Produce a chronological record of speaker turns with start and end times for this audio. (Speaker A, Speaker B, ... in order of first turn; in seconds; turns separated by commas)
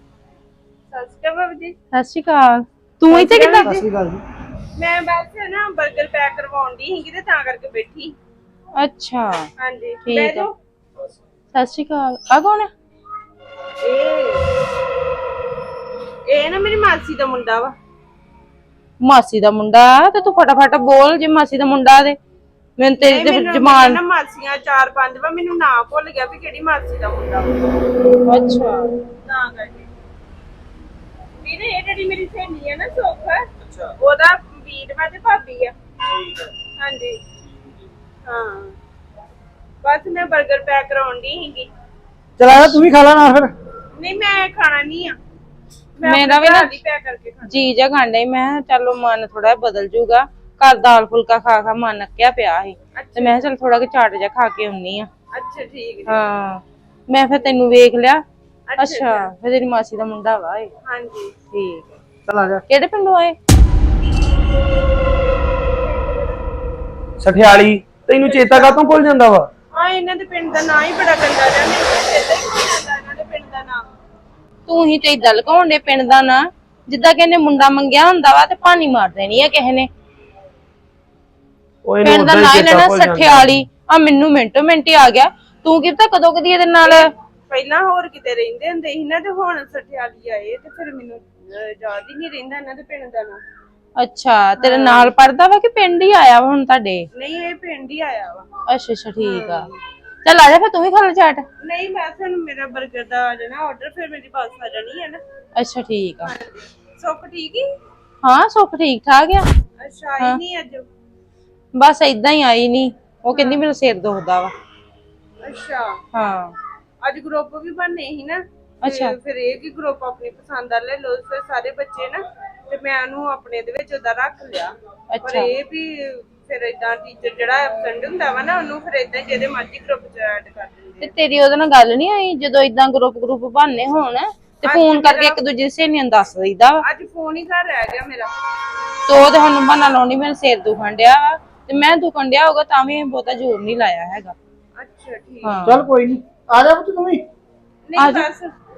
Speaker A: 0.9-1.8, Speaker B: 1.9-3.7, Speaker A: 3.1-3.8, Speaker C: 3.6-4.2, Speaker A: 4.8-8.2, Speaker B: 8.8-9.5, Speaker A: 9.6-10.5, Speaker B: 10.1-10.5, Speaker B: 11.5-12.7, Speaker A: 13.8-14.5, Speaker A: 16.3-17.8, Speaker B: 19.0-22.2, Speaker B: 22.8-24.0, Speaker A: 23.0-27.9, Speaker B: 28.3-28.8, Speaker A: 29.2-29.9, Speaker A: 31.4-33.4, Speaker A: 34.0-35.7, Speaker A: 36.8-37.2, Speaker A: 38.2-38.8, Speaker A: 39.8-41.7, Speaker C: 42.4-43.5, Speaker B: 42.5-42.8, Speaker A: 44.0-45.2, Speaker A: 46.0-47.5, Speaker B: 46.0-46.7, Speaker B: 47.5-55.1, Speaker A: 53.0-53.5, Speaker A: 55.3-56.2, Speaker B: 56.1-58.2, Speaker A: 58.7-59.3, Speaker B: 58.8-60.7, Speaker A: 60.8-61.3, Speaker B: 61.5-62.0, Speaker C: 62.3-62.6, Speaker B: 62.7-63.4, Speaker A: 65.8-66.3, Speaker D: 67.2-69.5, Speaker A: 68.2-68.8, Speaker A: 69.7-73.8, Speaker B: 74.7-79.9, Speaker D: 81.8-83.5, Speaker B: 82.0-87.1, Speaker A: 86.8-93.4, Speaker B: 94.0-97.1, Speaker A: 94.6-95.1, Speaker A: 97.1-98.5, Speaker B: 98.7-99.7, Speaker A: 99.2-99.8, Speaker B: 100.2-101.5, Speaker A: 101.6-105.2, Speaker B: 105.6-106.3, Speaker A: 106.3-107.7, Speaker B: 108.2-109.5, Speaker A: 109.8-110.9, Speaker B: 111.8-114.5, Speaker A: 113.3-113.6, Speaker A: 115.4-116.0, Speaker B: 116.1-116.5, Speaker A: 117.0-124.7, Speaker B: 118.8-119.1, Speaker B: 125.1-125.5, Speaker A: 125.2-131.1, Speaker B: 131.0-136.8, Speaker A: 134.7-135.4, Speaker A: 136.8-138.3, Speaker B: 139.1-144.3, Speaker A: 144.8-145.5, Speaker B: 145.4-145.8, Speaker C: 145.7-147.2, Speaker A: 147.9-148.5, Speaker B: 148.0-148.3